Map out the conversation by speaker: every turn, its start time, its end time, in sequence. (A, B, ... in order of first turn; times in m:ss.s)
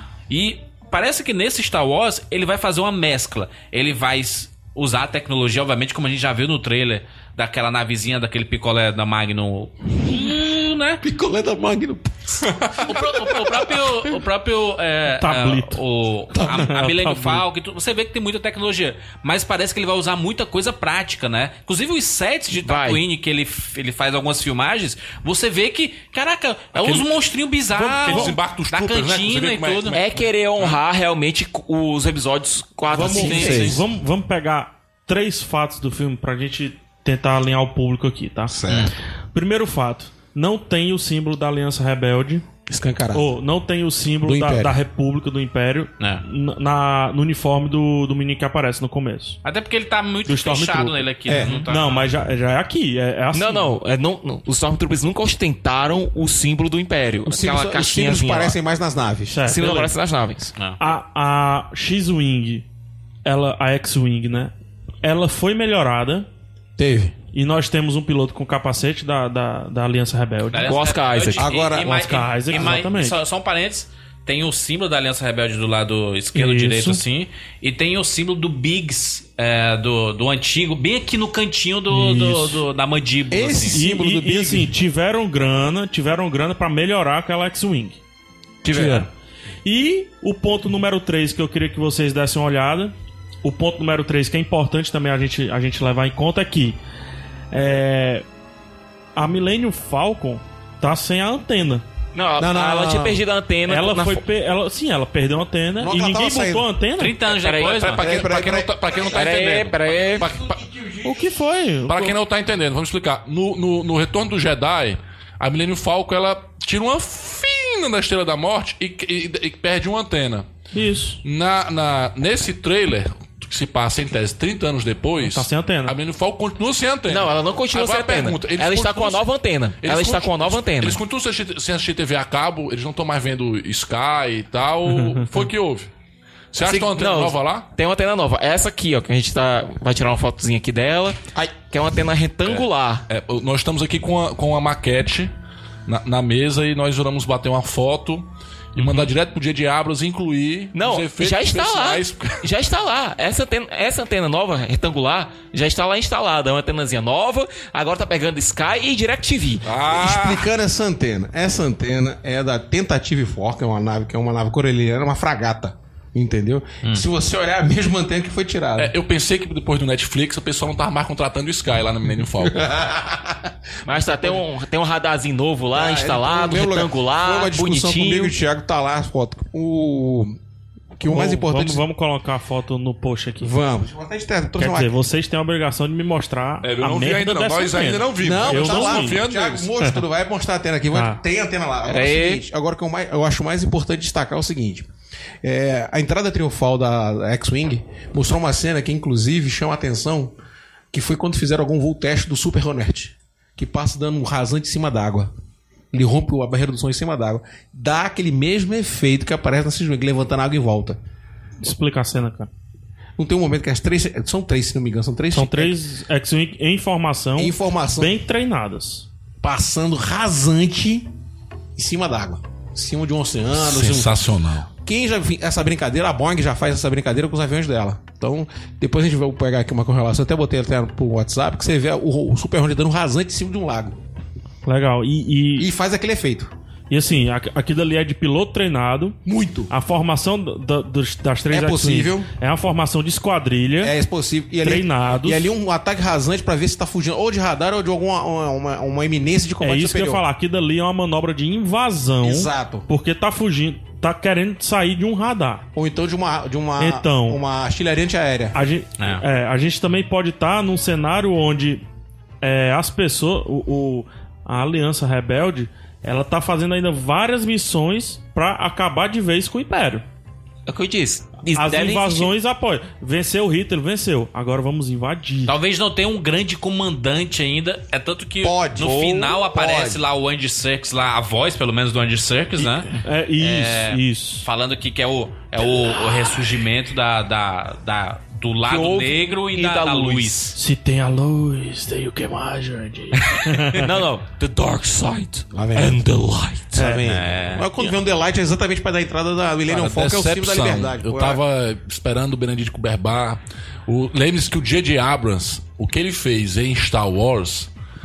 0:00.3-0:11.0 A
0:11.0-0:14.0 B
0:12.8-0:30.0 A
0:15.2-0:15.8 C
0:16.3-0:16.6 B
0:16.4-0:17.4 C
0:22.6-0:23.0 D
0:26.7-0:27.1 E
0:27.7-0:30.8 E
0:28.1-0:28.3 C
0:29.9-0:33.8 D
0:32.9-0:38.6 C
0:33.0-0:33.7 A
0:33.0-0:33.8 B
0:38.5-0:38.9 B
0:38.7-0:38.9 A
0:39.3-0:42.4 C
0:42.7-0:43.4 B
0:43.1-0:49.4 C
0:44.2-0:44.8 B
0:49.4-0:52.1 A
0:50.3-0:53.7 C
0:51.3-0:51.6 B
0:53.3-0:58.6 D
0:57.2-0:59.5 B
0:59.3-0:59.9 C
0:59.4-1:00.5 D
1:00.8-1:02.6 C
1:03.2-1:04.5 C
1:05.0-1:06.3 C
1:06.8-1:07.1 B
1:07.3-1:10.8 C
1:10.5-1:23.8 A
1:10.7-1:11.4 D
1:11.4-1:12.1 B
1:11.8-1:13.2 C
1:16.3-1:17.0 C
1:21.9-1:22.6 C
1:23.3-1:24.7 B
1:23.7-1:28.0 C
1:28.6-1:29.1 D
1:28.7-1:29.1 C
1:29.6-1:36.8 C
1:37.5-1:38.2 C
1:39.2-1:41.8 C
1:42.1-1:44.2 D
1:42.4-1:43.2 B
1:43.7-1:47.1 C
1:45.8-1:46.7 B
1:47.0-1:48.1 A
1:47.3-1:50.3 D
1:48.0-1:49.0 B
1:48.0-1:51.0 E
1:51.0-1:52.2 C
1:51.8-2:00.5 E
2:00.7-2:01.2 C
2:01.2-2:09.3 E
2:05.2-2:06.0 C
2:07.1-2:11.0 D
2:09.8-2:15.9 E
2:14.9-2:15.3 C
2:16.5-2:17.7 E
2:16.6-2:23.1 D
2:22.4-2:25.3 E
2:25.8-2:32.5 E
2:28.8-2:29.0 A
2:30.7-2:39.6 D
2:39.6-2:40.5 E
2:39.9-2:48.9 B
2:48.8-2:52.7 E
2:52.5-2:54.4 B
2:53.8-2:58.3 D
2:55.7-3:00.4 B
3:01.0-3:01.8 B
3:01.0-3:03.5 C
3:03.4-3:05.0 B
3:04.6-3:09.2 C
3:06.6-3:09.7 E
3:08.2-3:14.9 B
3:10.9-3:11.2 C
3:11.8-3:12.4 D
3:15.4-3:20.3 B
3:20.9-3:25.3 B
3:25.9-3:31.0 B
3:31.6-3:32.5 C
3:33.2-3:35.8 B
3:35.3-3:39.1 C
3:37.4-3:38.2 B
3:39.4-3:41.1 B
3:41.8-3:54.0 B
3:43.6-3:44.7 E
3:54.6-3:55.7 C
3:55.6-3:56.5 B
3:56.9-3:59.2 C
3:59.2-3:59.7 B
3:59.7-4:03.9 C
4:01.5-4:02.3 B
4:03.8-4:10.2 B
4:04.6-4:05.5 C
4:09.6-4:15.6 C
4:12.2-4:12.9 B
4:15.7-4:18.6 B
4:16.8-4:17.4 C
4:18.5-4:21.8 C
4:22.4-4:30.0 C
4:30.7-4:32.3 D
4:31.5-4:35.5 C
4:35.5-4:50.5 A
4:38.4-4:40.0 B
4:42.9-4:44.5 C
4:48.6-4:50.5 D
4:50.6-4:53.9 C
4:53.2-4:57.0 D
4:55.5-4:56.0 B
4:56.7-5:01.4 B
4:56.8-4:57.0 C
4:57.0-4:57.7 A
4:59.7-5:07.7 E